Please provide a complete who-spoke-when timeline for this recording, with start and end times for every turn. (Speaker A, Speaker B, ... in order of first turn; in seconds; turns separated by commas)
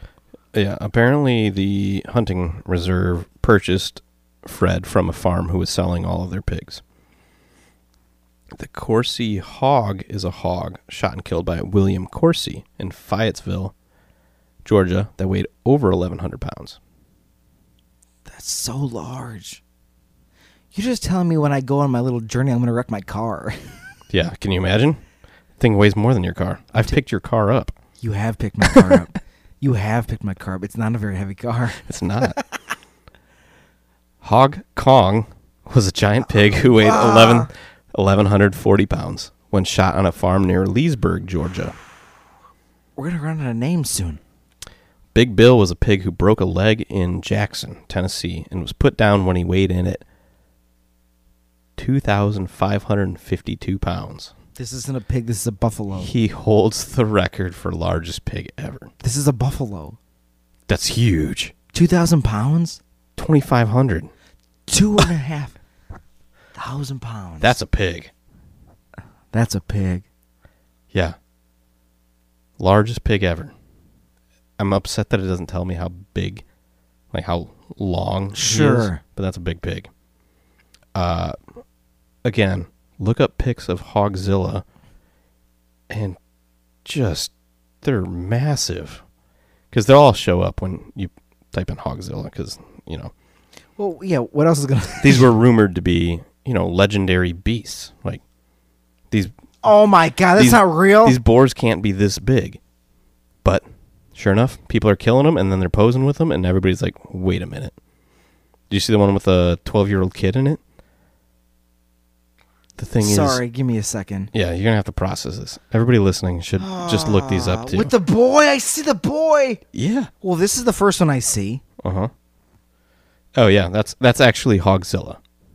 Speaker A: 0.5-6.8, Speaker A: 8.6-13.7, Speaker A: 14.6-16.8, Speaker B: 18.2-19.6, Speaker B: 20.7-23.8, Speaker A: 24.1-25.0, Speaker A: 25.6-27.7, Speaker B: 28.0-32.5, Speaker A: 28.7-29.0, Speaker A: 31.8-32.4, Speaker A: 34.2-41.7, Speaker B: 36.3-37.5, Speaker B: 43.0-44.2, Speaker A: 45.1-50.0, Speaker A: 51.8-54.3, Speaker B: 54.6-56.1, Speaker A: 55.9-58.9, Speaker B: 59.0-60.0, Speaker A: 60.7-61.5, Speaker B: 61.7-62.8, Speaker A: 63.1-64.1, Speaker B: 64.7-65.6, Speaker B: 66.5-67.6, Speaker A: 67.4-68.1, Speaker B: 69.3-70.0, Speaker A: 72.6-73.5, Speaker A: 74.6-76.4, Speaker A: 77.1-79.9, Speaker B: 78.3-79.0, Speaker A: 80.9-81.4, Speaker A: 82.2-84.6, Speaker A: 85.9-86.2, Speaker A: 86.8-89.0, Speaker A: 89.7-93.1, Speaker B: 93.8-95.3, Speaker A: 95.0-98.2, Speaker B: 99.6-101.2, Speaker A: 100.4-102.6, Speaker A: 103.4-107.7, Speaker A: 108.7-110.6, Speaker A: 112.8-113.4, Speaker B: 113.0-114.3, Speaker A: 114.3-117.9, Speaker B: 116.6-119.6, Speaker A: 119.7-120.1, Speaker B: 120.2-121.6, Speaker A: 121.8-122.1, Speaker A: 123.3-125.2